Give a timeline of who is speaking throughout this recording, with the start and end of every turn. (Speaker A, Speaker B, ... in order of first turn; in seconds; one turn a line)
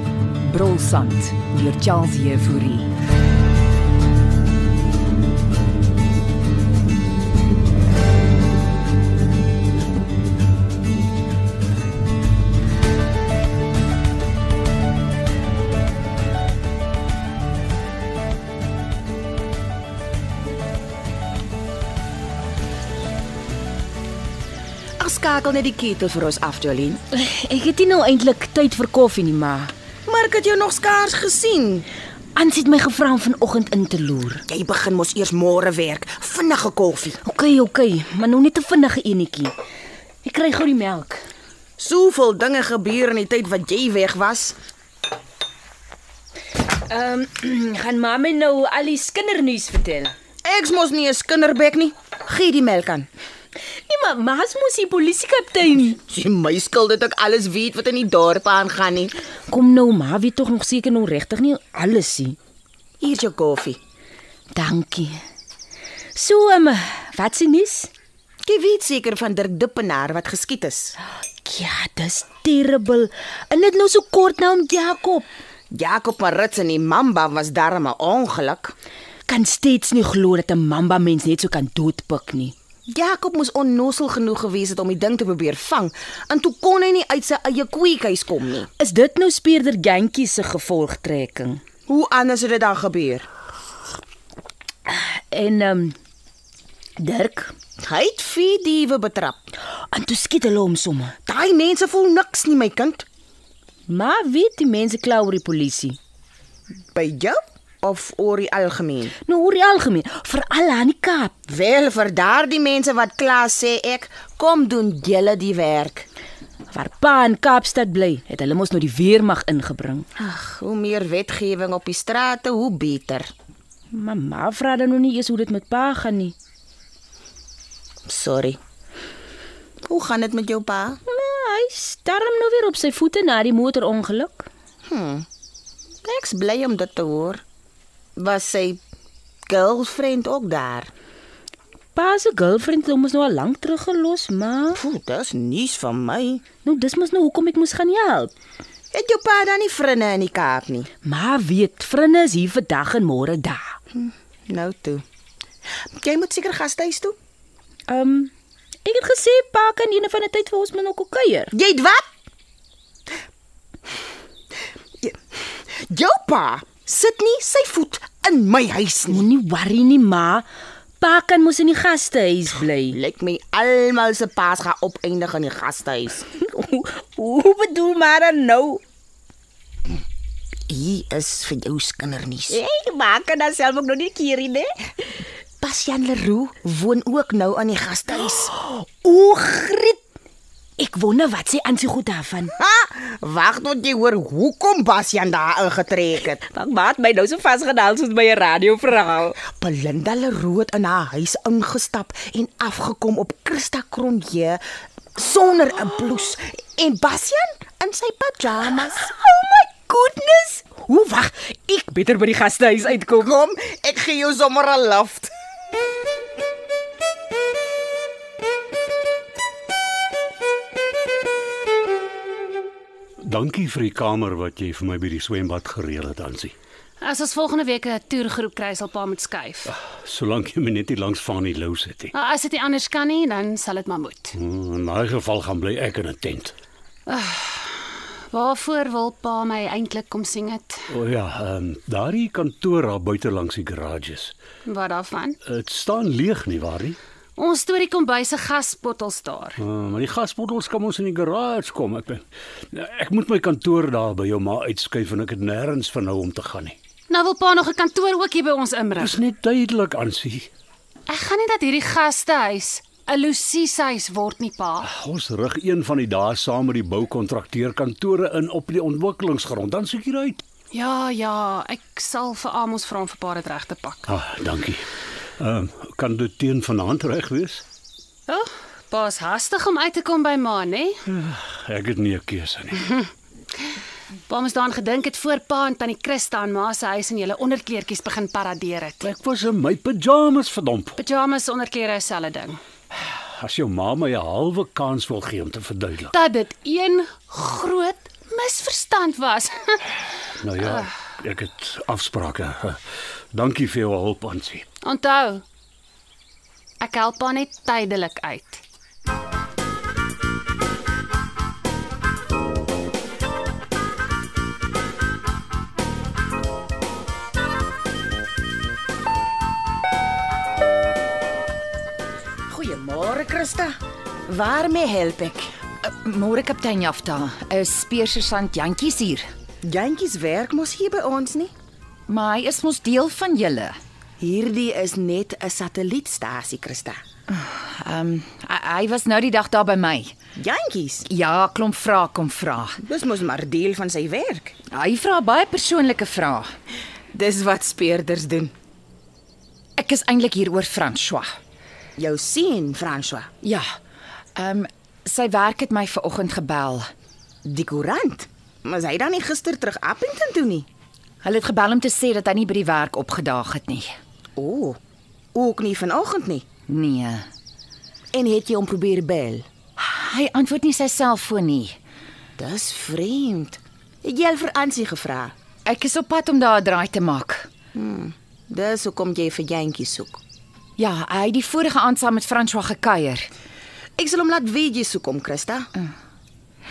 Speaker A: 0.4-2.9
Speaker B: 25.0-27.0
Speaker C: 27.1-29.7
Speaker B: 30.1-31.9
Speaker C: 32.3-34.4
Speaker B: 34.5-37.2
Speaker C: 37.2-39.5
Speaker C: 40.2-41.2
Speaker B: 41.8-44.6
Speaker C: 46.9-50.1
Speaker B: 50.4-53.1
Speaker C: 53.9-56.0
Speaker B: 56.0-59.1
Speaker C: 59.5-62.4
Speaker B: 63.0-63.8
Speaker C: 64.5-65.2
Speaker C: 66.1-67.9
Speaker B: 68.4-71.0
Speaker C: 71.4-75.3
Speaker B: 75.7-78.7
Speaker C: 79.2-82.5
Speaker B: 82.9-88.7
Speaker C: 88.8-91.6
Speaker B: 91.9-93.3
Speaker C: 94.9-95.9
Speaker C: 97.0-97.5
Speaker B: 97.8-99.5
Speaker C: 99.9-101.2
Speaker B: 101.2-103.0
Speaker C: 103.9-106.0
Speaker B: 106.9-109.1
Speaker C: 109.2-111.3
Speaker B: 111.5-116.1
Speaker C: 116.7-120.0
Speaker B: 120.2-123.3
Speaker C: 123.9-126.3
Speaker B: 128.1-128.6
Speaker B: 129.8-131.0
Speaker C: 131.1-134.5
Speaker B: 134.8-135.2
Speaker B: 136.0-137.4
Speaker B: 138.2-138.8
Speaker B: 139.4-140.9
Speaker C: 141.9-144.8
Speaker B: 144.7-146.4
Speaker C: 146.6-148.3
Speaker B: 148.9-150.9
Speaker C: 151.0-153.8
Speaker B: 153.9-155.0
Speaker B: 156.0-157.2
Speaker C: 157.9-158.3
Speaker C: 158.8-161.5
Speaker B: 161.5-162.0
Speaker B: 165.0-169.2
Speaker C: 169.1-170.4
Speaker C: 171.0-173.0
Speaker B: 172.9-176.2
Speaker C: 176.2-178.8
Speaker B: 180.7-182.6
Speaker C: 182.5-184.7
Speaker B: 185.6-188.5
Speaker C: 188.5-190.0
Speaker C: 190.8-192.6
Speaker B: 192.6-196.4
Speaker C: 196.4-199.3
Speaker B: 199.4-204.6
Speaker B: 205.2-209.1
Speaker C: 209.1-213.2
Speaker B: 213.0-215.3
Speaker D: 223.2-226.5
Speaker E: 227.0-229.7
Speaker D: 229.7-232.1
Speaker E: 232.1-234.3
Speaker D: 234.4-236.5
Speaker E: 237.1-240.9
Speaker D: 240.9-244.3
Speaker E: 244.7-245.4
Speaker D: 245.4-247.0
Speaker E: 247.4-249.6
Speaker D: 249.6-256.8
Speaker E: 257.1-259.2
Speaker D: 258.9-260.5
Speaker E: 261.1-264.9
Speaker D: 264.8-270.4
Speaker E: 270.7-274.1
Speaker D: 274.1-274.9
Speaker D: 275.4-277.6
Speaker E: 278.3-281.0
Speaker D: 281.1-282.9
Speaker E: 284.3-289.1
Speaker D: 289.0-290.9
Speaker E: 291.0-292.6
Speaker D: 293.1-296.1
Speaker E: 296.1-299.8
Speaker D: 300.4-302.8
Speaker D: 303.3-304.6
Speaker E: 304.8-305.4
Speaker E: 306.8-308.6
Speaker B: 322.5-323.7
Speaker B: 324.3-325.5
Speaker A: 325.8-329.2
Speaker B: 329.6-331.5
Speaker A: 332.1-333.8
Speaker B: 334.2-337.0
Speaker A: 337.3-340.1
Speaker B: 340.4-341.1
Speaker A: 341.1-342.8
Speaker B: 342.8-344.5
Speaker A: 344.7-346.5
Speaker B: 347.1-348.5
Speaker A: 349.8-351.3
Speaker B: 352.0-353.3
Speaker A: 354.4-356.9
Speaker B: 357.4-360.7
Speaker A: 361.2-363.9
Speaker B: 364.4-364.8
Speaker B: 365.3-366.4
Speaker A: 366.7-367.2
Speaker B: 368.1-369.4
Speaker A: 369.8-371.8
Speaker B: 372.4-375.3
Speaker A: 375.6-377.5
Speaker B: 377.7-380.2
Speaker A: 380.8-383.3
Speaker B: 384.0-385.7